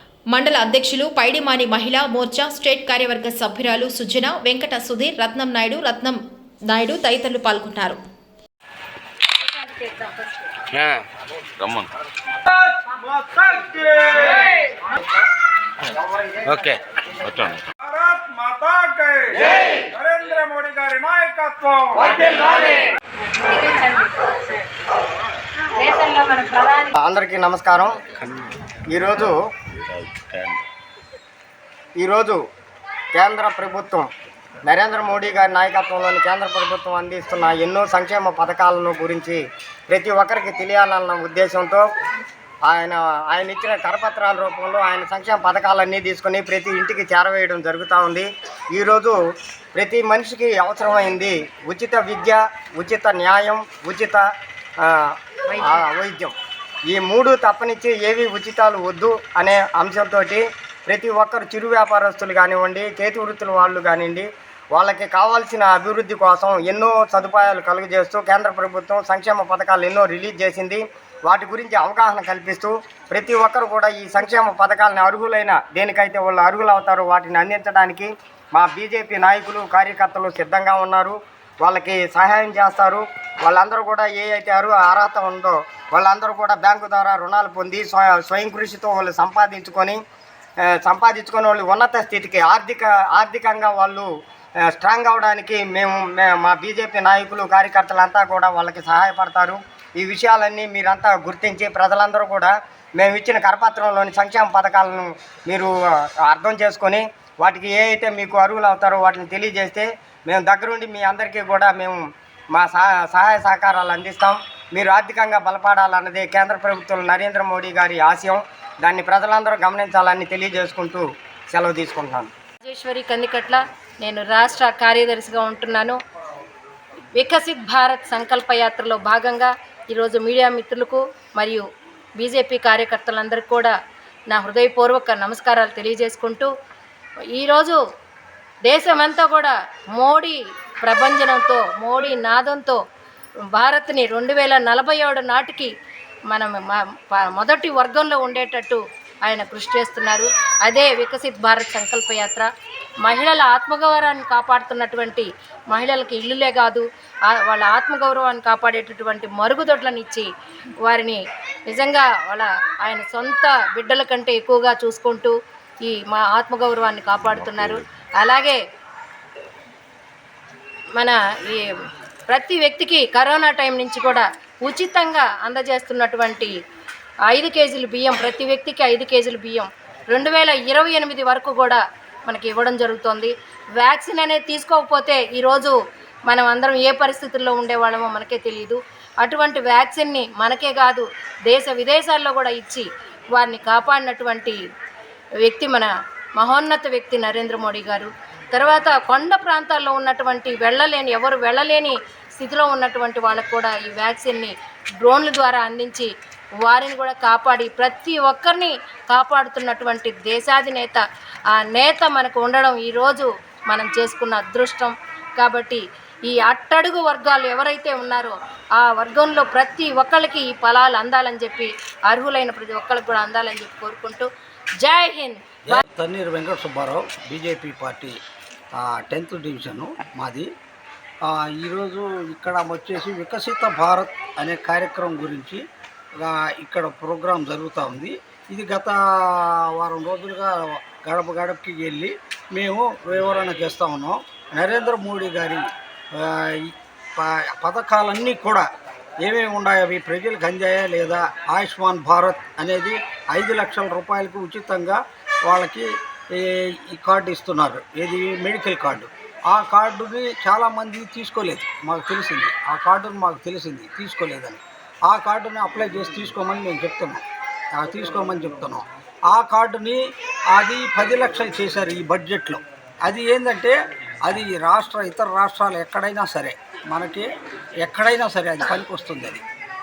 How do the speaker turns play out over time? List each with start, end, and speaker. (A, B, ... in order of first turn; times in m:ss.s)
0:00.3-0:06.2 A
0:06.7-0:08.0 A
0:09.5-0:10.3 B
0:10.7-0:11.0 C
0:11.6-0:11.9 C
0:13.1-0:14.3 D
0:16.4-0:17.6 C
0:17.9-0:22.3 D
0:23.5-0:24.2 B
0:25.9-0:26.8 B
0:26.9-0:27.9 E
0:28.9-0:29.3 E
0:30.3-0:30.6 C
0:32.0-0:32.4 E
0:33.1-0:34.1 E
0:34.6-0:41.8 E
0:42.6-0:49.2 E
0:49.7-0:54.2 E
0:54.8-0:56.3 E
0:56.9-1:30.0 E
1:30.6-1:34.1 E
1:34.7-1:52.0 E
1:52.5-2:02.3 E
2:02.6-2:06.0 B
2:07.2-2:11.6 B
2:12.2-2:13.7 B
2:14.3-2:16.5 B
2:17.3-2:17.8 B
2:18.6-2:22.8 B
2:23.6-2:25.7 B
2:26.3-2:32.5 B
2:33.0-2:40.3 B
2:40.8-2:48.6 B
2:51.0-2:51.7 B
2:52.3-2:56.5 B
2:57.3-3:05.7 B
3:06.3-3:14.6 B
3:15.4-3:26.1 B
3:26.6-3:31.0 B
3:31.5-3:44.3 B
3:44.8-3:45.8 B
3:45.7-3:48.2 F
3:48.7-3:50.5 F
3:51.2-3:55.6 F
3:56.2-4:08.7 F
4:09.2-4:37.3 F
4:37.8-4:39.4 F